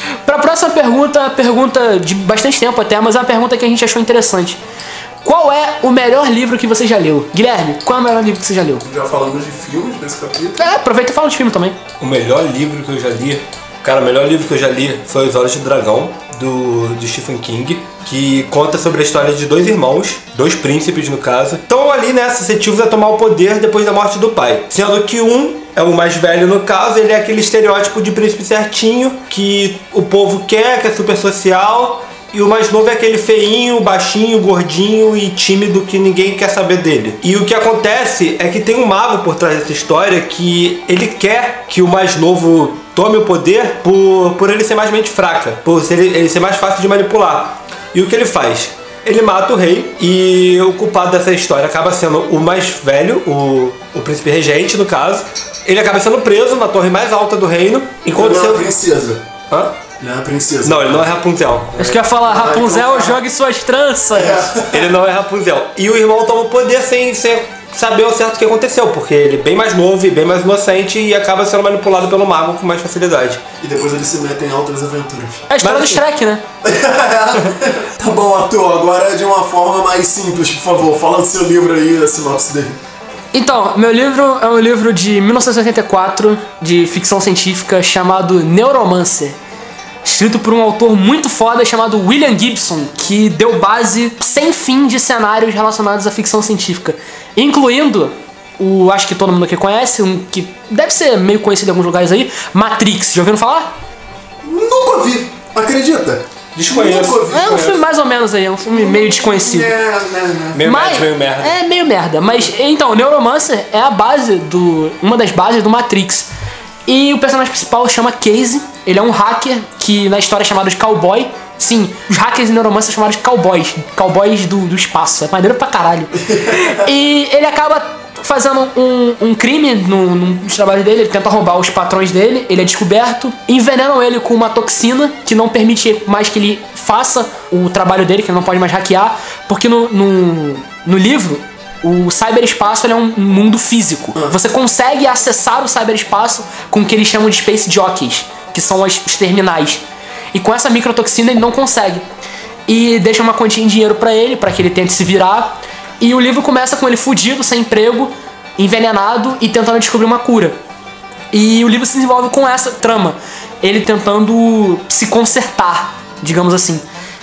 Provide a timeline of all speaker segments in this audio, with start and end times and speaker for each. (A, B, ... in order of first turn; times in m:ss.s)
0:00.3-0:04.6 A
0:05.2-0:08.8 A
0:08.8-0:10.7 B
0:10.6-0:11.8 A
0:12.0-0:58.7 C
0:58.1-0:59.2 B
0:59.5-0:59.8 C
1:00.0-1:01.2 B
1:00.6-1:01.8 C
1:01.7-1:03.2 B
1:01.8-1:04.5 A
1:04.1-1:04.9 B
1:04.7-1:13.4 C
1:13.6-1:15.5 B
1:15.5-1:16.4 A
1:15.6-1:16.0 C
1:16.6-1:22.8 B
1:23.3-1:29.4 A
1:30.0-1:43.8 A
1:44.4-1:47.8 B
1:46.6-1:47.6 C
1:47.2-1:49.7 A
1:48.7-1:50.7 B
1:50.5-1:51.5 C
1:50.6-1:56.3 A
1:56.9-2:29.8 A
2:06.3-2:06.8 B
2:30.3-2:32.0 A
2:32.7-2:40.6 A
2:41.3-2:46.8 A